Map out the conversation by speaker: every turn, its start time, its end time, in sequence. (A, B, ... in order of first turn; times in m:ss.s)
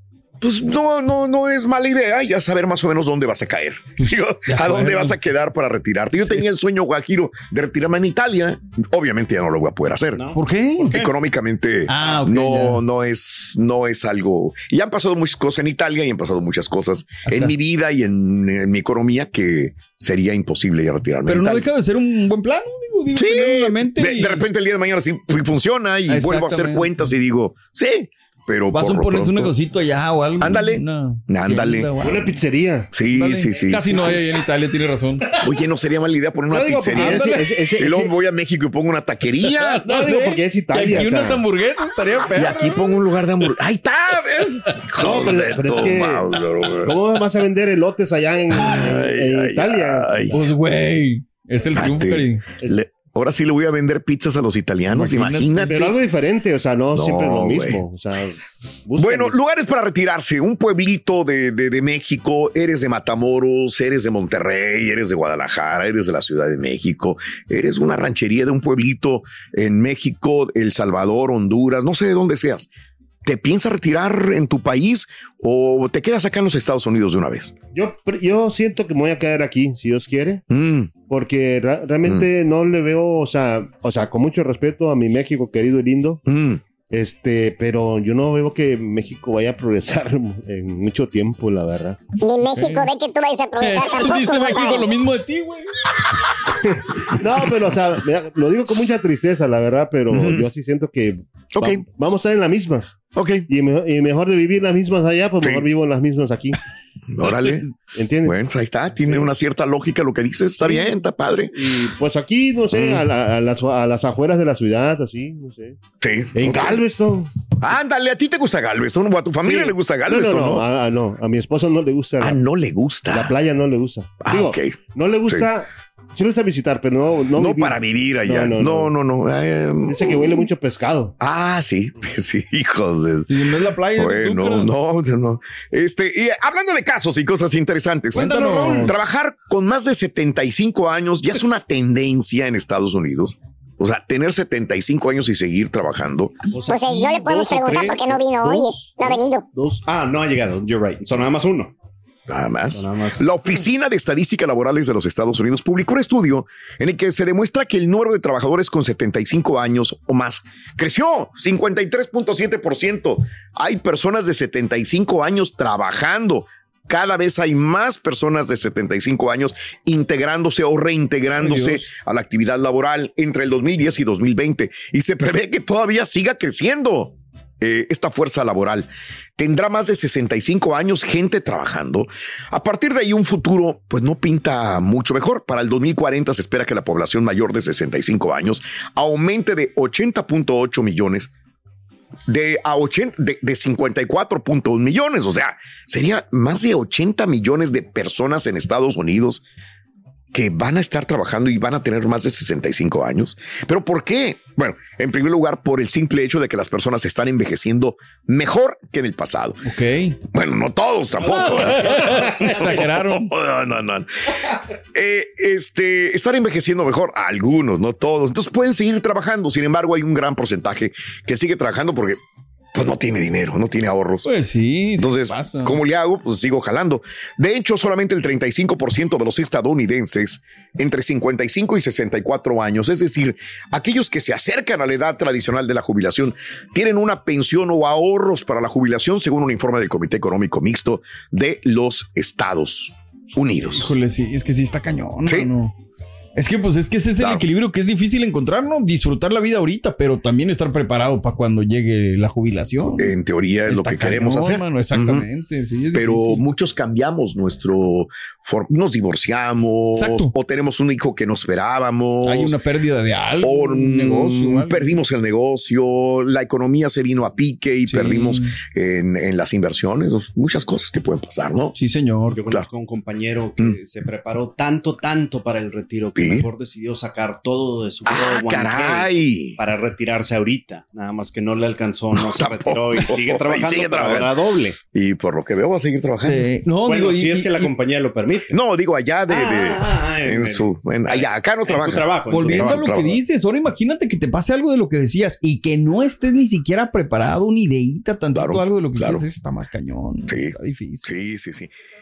0:00.4-0:21.7 A
0:04.0-0:05.2 B
0:06.2-0:06.5 B
0:10.3-0:11.1 B
0:11.9-0:12.8 B
0:17.2-0:17.5 B
0:21.3-0:24.4 B
0:23.1-0:29.5 A
0:26.1-0:27.1 B
0:28.7-0:32.4 B
0:30.4-0:32.1 A
0:32.0-0:32.9 C
0:32.9-0:34.2 A
0:33.0-0:35.4 B
0:35.4-0:39.8 A
0:36.5-0:38.1 C
0:36.9-0:37.6 B
0:39.4-0:43.0 B
0:39.8-0:41.4 C
0:42.3-0:47.0 A
0:45.0-0:46.2 C
0:46.8-0:50.2 C
0:48.5-0:50.4 A
0:50.3-0:52.5 B
0:51.8-0:55.9 A
0:54.9-0:55.9 B
0:55.7-0:59.4 C
0:56.9-0:57.8 A
0:59.0-1:12.7 A
1:13.2-1:17.6 A
1:17.7-1:20.4 C
1:20.5-1:20.9 A
1:21.1-1:26.2 C
1:26.3-1:26.6 A
1:26.9-1:32.0 C
1:32.2-1:34.9 D
1:32.5-1:32.9 B
1:33.6-1:35.7 B
1:36.6-1:46.6 C
1:40.1-1:40.5 A
1:41.6-1:41.8 A
1:43.1-1:43.5 A
1:47.1-1:47.7 A
1:47.9-1:48.4 C
1:48.2-1:51.6 A
1:50.6-1:51.0 C
1:51.5-1:55.8 C
1:52.7-1:53.1 A
1:56.0-1:56.8 A
1:56.4-1:57.3 C
1:57.6-2:00.7 A
1:59.4-2:02.4 C
2:02.2-2:03.3 A
2:03.1-2:08.9 C
2:04.2-2:05.5 A
2:07.4-2:10.5 A
2:09.9-2:11.1 C
2:11.2-2:13.3 A
2:13.3-2:14.7 B
2:13.9-2:26.4 A
2:18.1-2:19.1 B
2:26.5-2:28.2 E
2:26.7-2:29.5 D
2:28.2-2:29.8 C
2:29.8-2:31.7 E
2:32.3-3:11.3 A
2:32.7-2:33.3 E
2:51.4-2:51.9 B
3:12.3-3:19.4 A
3:20.3-3:29.6 A
3:29.6-3:30.2 B
3:30.3-3:34.1 A
3:31.2-3:33.3 B
3:34.9-3:42.2 A
3:42.7-3:44.3 A
3:44.2-3:45.8 B
3:45.0-4:03.9 A
4:03.6-4:05.8 B
4:06.4-4:13.2 B
4:07.2-4:07.4 A
4:13.0-4:15.3 A
4:13.7-4:16.4 B
4:15.9-4:22.6 A
4:19.9-4:20.3 B
4:22.2-4:25.0 B
4:23.4-4:31.8 A
4:27.9-4:28.6 B
4:31.8-4:32.4 B
4:32.3-4:44.8 E
4:36.2-4:36.5 A
4:38.1-4:39.6 A
4:42.1-4:44.4 A
4:44.9-4:46.6 A
4:46.2-4:47.7 B
4:46.8-4:48.6 E
4:48.5-4:53.2 A
4:49.3-4:52.8 E
4:52.3-5:01.1 B
4:58.3-4:59.2 A
5:00.3-5:01.7 A